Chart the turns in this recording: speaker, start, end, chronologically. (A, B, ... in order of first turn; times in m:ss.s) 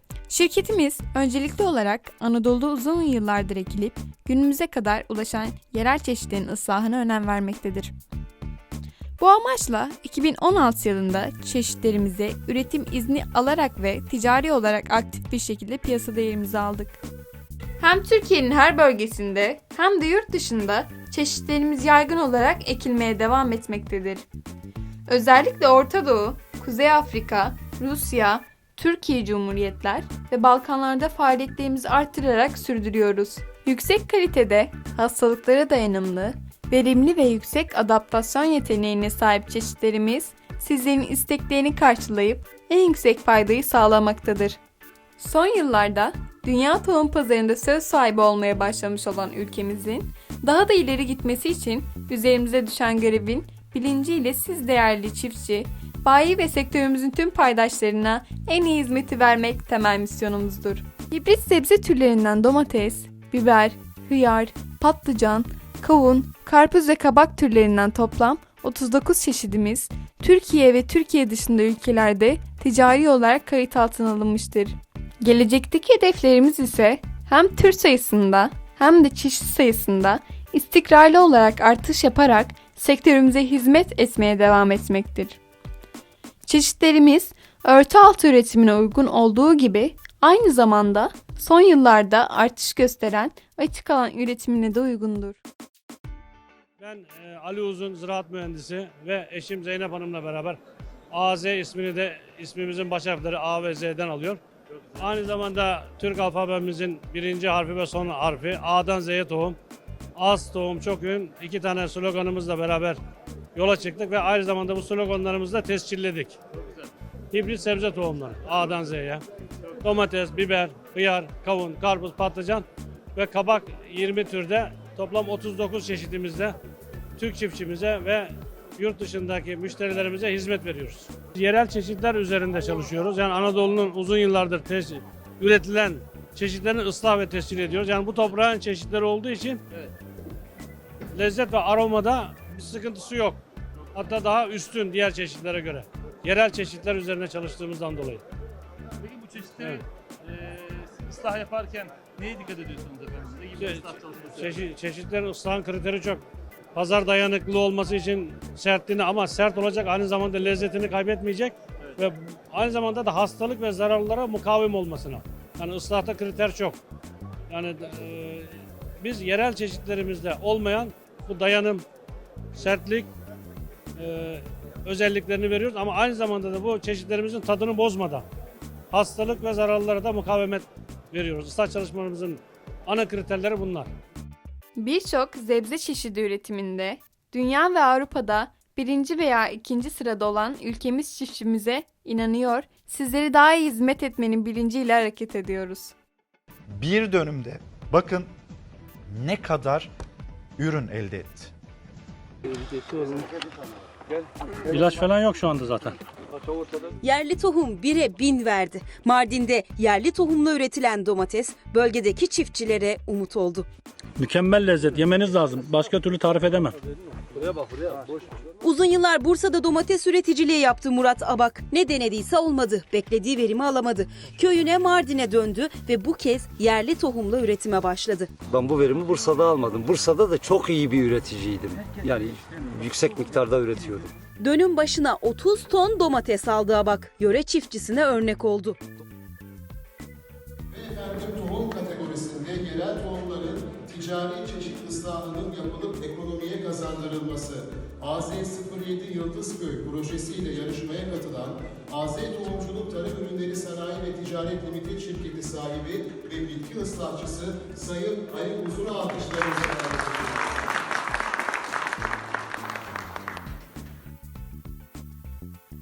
0:00.3-0:07.9 A
0:09.2-0:17.0 A
0:17.8-0:24.2 A
0:25.1-0:44.6 A
0:45.2-1:25.4 A
1:26.4-1:35.4 A
1:36.8-1:40.6 B
1:41.1-1:44.4 B
1:45.0-1:49.6 B
1:50.2-1:53.0 B
1:53.5-1:56.4 B
1:57.3-1:59.2 B
1:59.8-2:06.6 B
2:07.2-2:19.6 B
2:21.1-2:23.4 B
2:23.9-2:28.2 B
2:29.0-2:34.6 C
2:33.6-2:36.2 B
2:36.7-2:46.8 B
2:47.5-2:51.8 B
2:52.5-2:53.1 B
2:54.0-2:58.2 B
2:58.9-3:03.9 B
3:04.8-3:15.9 A
3:16.7-3:18.3 D
3:19.1-3:19.9 D
3:20.6-3:21.5 D
3:24.7-3:25.9 B
3:27.0-3:33.7 E
3:34.2-3:36.7 B
3:38.6-3:48.4 E
3:48.4-3:54.1 F
3:54.4-3:58.8 E
4:00.7-4:20.5 G